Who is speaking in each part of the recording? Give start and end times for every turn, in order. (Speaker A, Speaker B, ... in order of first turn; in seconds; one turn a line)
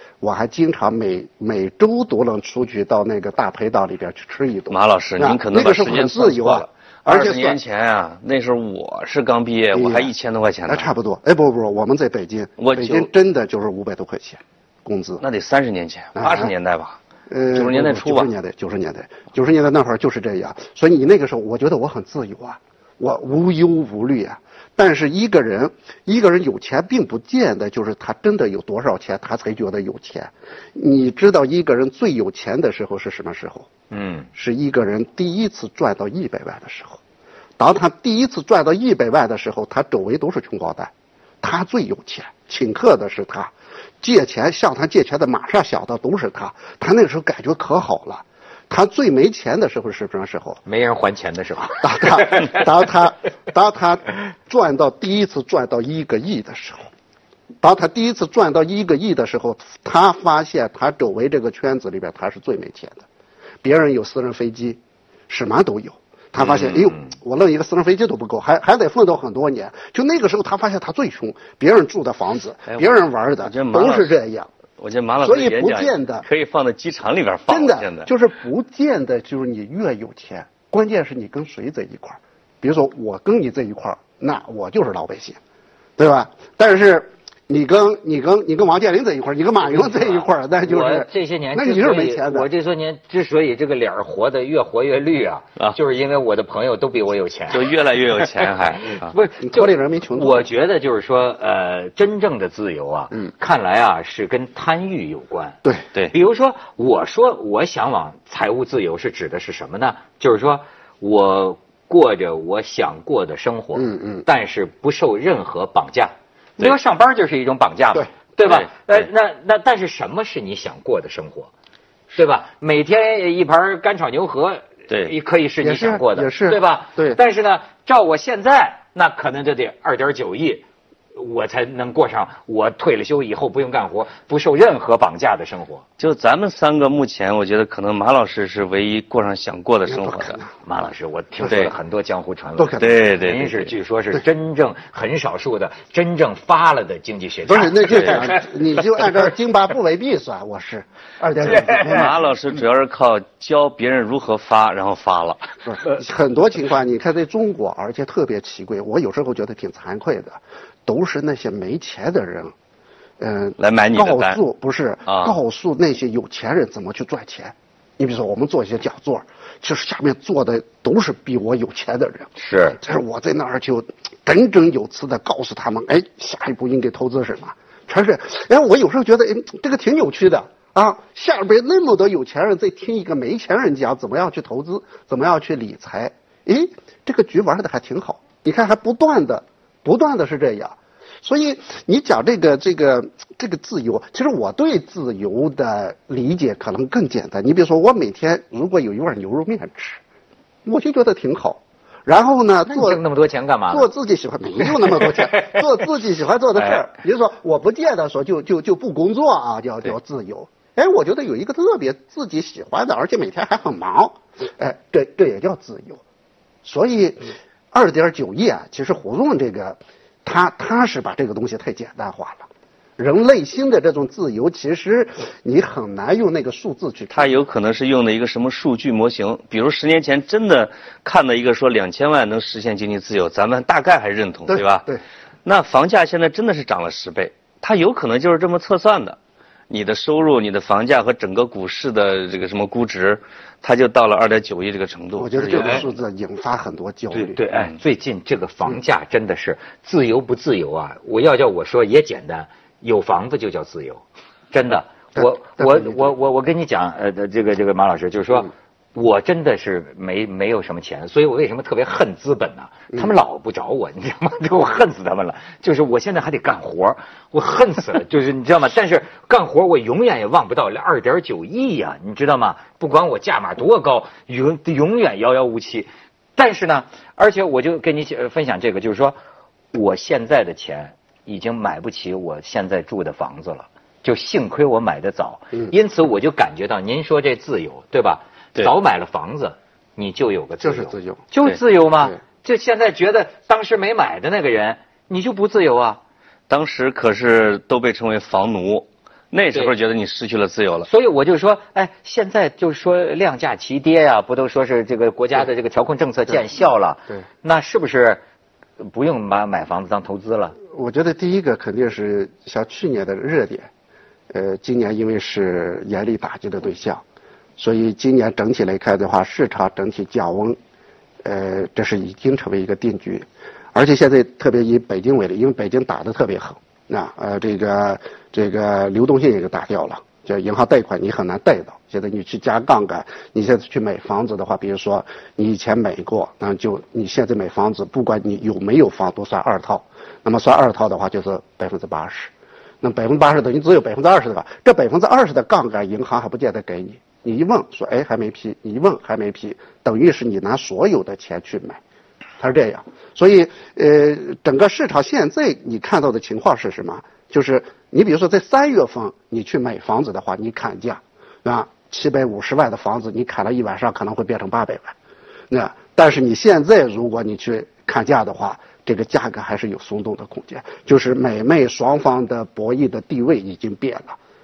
Speaker A: 0.2-7.6
Speaker B: 4.7-10.9
Speaker A: 9.7-10.1
Speaker A: 10.7-15.2
Speaker B: 12.6-13.1
Speaker B: 15.2-17.0
Speaker A: 16.1-16.5
Speaker A: 17.3-33.7
Speaker B: 17.5-18.3
Speaker C: 33.9-34.3
Speaker A: 34.3-37.0
Speaker A: 37.6-50.6
Speaker C: 50.6-52.6
Speaker A: 51.8-56.9
Speaker A: 57.6-63.0
Speaker A: 63.6-74.5
Speaker B: 73.4-74.1
Speaker B: 74.8-78.1
Speaker A: 75.2-76.2
Speaker A: 77.5-85.4
Speaker A: 86.0-92.5
Speaker C: 89.6-121.5
Speaker B: 97.5-99.1
Speaker A: 99.4-100.5
Speaker A: 113.7-114.2
Speaker B: 118.4-119.1
Speaker C: 122.1-135.8
Speaker A: 125.6-127.2
Speaker B: 136.0-140.4
Speaker A: 139.9-140.5
Speaker C: 140.6-148.4
Speaker B: 141.5-141.7
Speaker A: 142.6-143.1
Speaker B: 142.8-143.7
Speaker A: 147.5-152.1
Speaker B: 147.9-148.2
Speaker C: 151.5-152.0
Speaker B: 151.6-155.4
Speaker A: 155.7-162.5
Speaker A: 163.2-200.0
Speaker B: 163.6-164.4
Speaker B: 165.1-165.3
Speaker C: 172.4-172.8
Speaker A: 200.6-203.0
Speaker C: 202.7-203.9
Speaker A: 203.7-216.0
Speaker C: 204.8-205.6
Speaker A: 216.6-227.4
Speaker B: 227.1-234.9
Speaker A: 234.5-235.0
Speaker B: 235.4-239.2
Speaker B: 239.7-245.9
Speaker A: 245.2-247.4
Speaker C: 245.6-245.8
Speaker C: 247.3-279.2
Speaker A: 255.2-256.1
Speaker C: 279.7-296.0
Speaker A: 290.6-291.2
Speaker B: 296.5-300.9
Speaker C: 300.9-308.2
Speaker C: 308.8-310.6
Speaker A: 310.7-313.7
Speaker A: 314.3-317.0
Speaker A: 317.6-320.6
Speaker A: 321.2-351.8
Speaker A: 352.4-364.9
Speaker A: 365.5-374.2